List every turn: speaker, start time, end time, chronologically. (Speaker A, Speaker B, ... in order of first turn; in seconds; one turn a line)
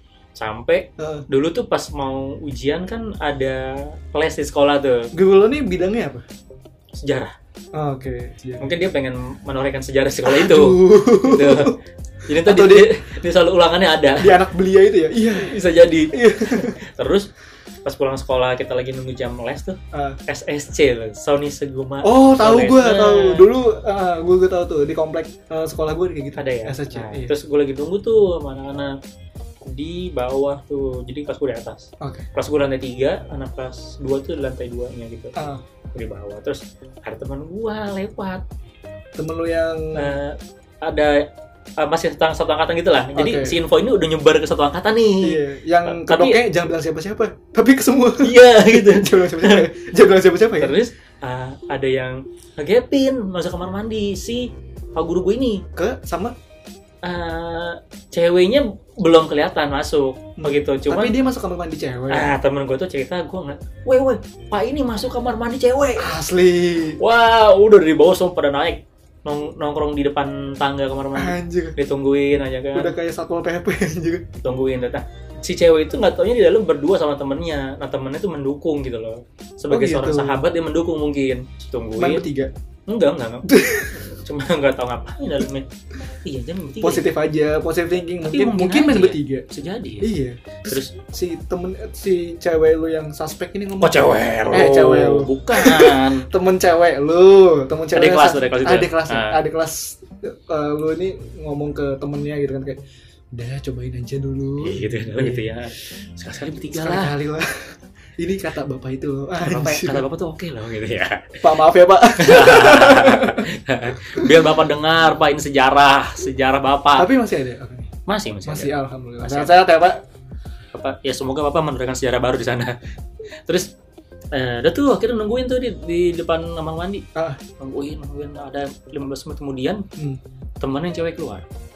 Speaker A: 0.3-5.1
Speaker B: 1.0-1.2
Speaker B: 5.1-6.2
Speaker A: 7.0-7.3
Speaker B: 7.7-8.7
Speaker A: 8.6-11.7
Speaker B: 10.2-11.7
Speaker A: 12.3-14.3
Speaker B: 12.4-12.9
Speaker B: 14.2-15.6
Speaker A: 15.3-17.3
Speaker B: 16.1-16.8
Speaker A: 17.8-23.5
Speaker B: 19.9-20.2
Speaker B: 22.0-27.3
Speaker A: 26.4-28.9
Speaker A: 29.6-35.3
Speaker B: 32.0-32.2
Speaker B: 35.4-35.6
Speaker A: 35.9-38.4
Speaker B: 39.1-40.1
Speaker A: 39.9-41.3
Speaker A: 41.8-46.4
Speaker B: 43.1-43.6
Speaker B: 45.2-50.8
Speaker A: 48.2-49.7
Speaker A: 50.6-55.6
Speaker B: 55.7-56.3
Speaker A: 57.0-61.1
Speaker B: 60.4-62.3
Speaker A: 62.1-66.1
Speaker B: 66.0-67.0
Speaker A: 67.0-72.9
Speaker B: 71.1-71.8
Speaker B: 72.7-74.3
Speaker A: 74.4-82.3
Speaker B: 79.7-80.4
Speaker B: 82.0-82.5
Speaker A: 82.9-85.7
Speaker B: 83.5-84.0
Speaker A: 86.2-87.1
Speaker B: 86.8-89.5
Speaker A: 88.2-90.1
Speaker B: 90.0-102.8
Speaker A: 90.7-90.9
Speaker A: 93.8-96.3
Speaker A: 97.9-99.4
Speaker B: 103.3-105.5
Speaker A: 104.6-107.1
Speaker B: 106.7-110.0
Speaker A: 109.4-111.5
Speaker B: 111.4-113.5
Speaker A: 112.2-117.1
Speaker B: 114.1-114.4
Speaker B: 117.0-117.9
Speaker A: 118.0-119.6
Speaker B: 118.5-120.0
Speaker A: 120.7-122.8
Speaker A: 124.3-127.0
Speaker B: 127.2-127.4
Speaker A: 127.6-129.8
Speaker A: 130.6-131.4